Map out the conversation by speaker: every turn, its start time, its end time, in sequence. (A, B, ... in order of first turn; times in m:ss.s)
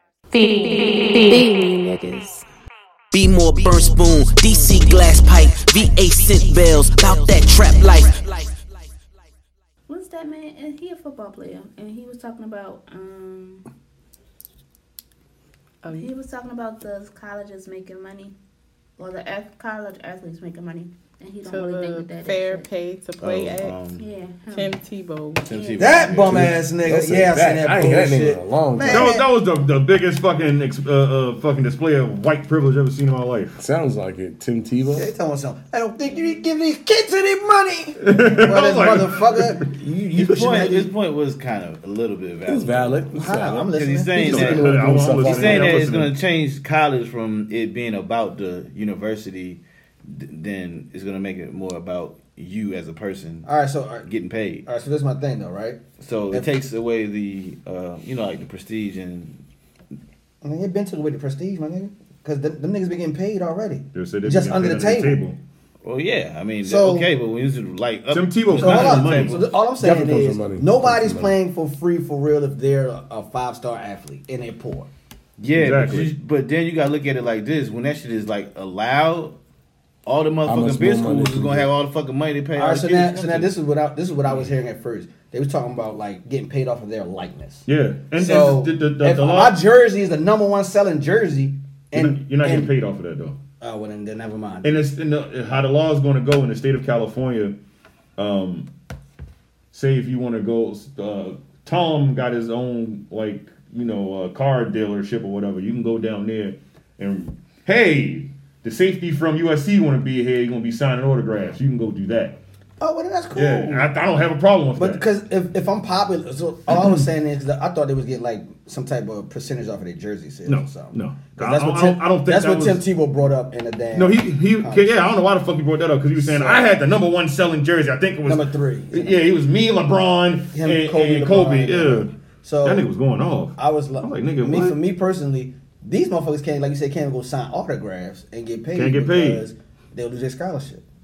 0:00.3-0:02.4 A
0:03.1-0:08.5 B
0:09.9-0:13.6 C
0:15.8-0:16.1 D
0:15.9-0:18.3 C
0:19.0-0:22.7 C
0:21.4-0:23.8 D
0:23.2-0:24.1 E
0:24.0-0:24.8 C
0:24.5-0:25.5 D
0:25.4-0:26.3 C
0:25.5-0:26.6 E
0:25.8-0:29.3 F
0:26.3-0:29.1 G
0:28.8-0:33.6 H
0:33.6-0:35.1 G
0:34.9-0:40.9 F
0:38.0-0:39.7 H
0:40.2-0:53.5 E
0:42.4-0:43.6 G
0:43.1-0:44.7 F
0:44.2-0:45.9 G
0:44.2-0:46.2 H
0:53.4-0:54.1 F
0:54.0-0:54.6 E
0:54.6-0:56.5 F
0:56.0-0:59.4 E
1:00.4-1:05.2 F
1:03.9-1:05.4 H
1:05.8-1:09.4 E
1:06.6-1:07.1 F
1:08.1-1:09.5 H
1:08.5-1:14.9 F
1:09.7-1:11.4 G
1:15.4-1:19.4 E
1:15.5-1:16.1 H
1:20.0-1:23.5 E
1:20.4-1:21.7 G
1:22.5-1:32.7 F
1:27.7-1:29.6 H
1:31.9-1:33.4 H
1:33.6-1:34.9 F
1:34.6-1:37.6 H
1:38.2-1:38.7 H
1:39.7-1:52.4 H
1:52.8-1:53.9 F
1:53.3-1:55.0 H
1:54.8-2:05.1 F
2:00.4-2:02.8 H
2:03.9-2:12.1 H
2:06.1-2:06.7 F
2:08.2-2:09.3 F
2:10.5-2:12.9 F
2:12.6-2:14.8 H
2:13.5-2:20.8 F
2:18.7-2:19.4 H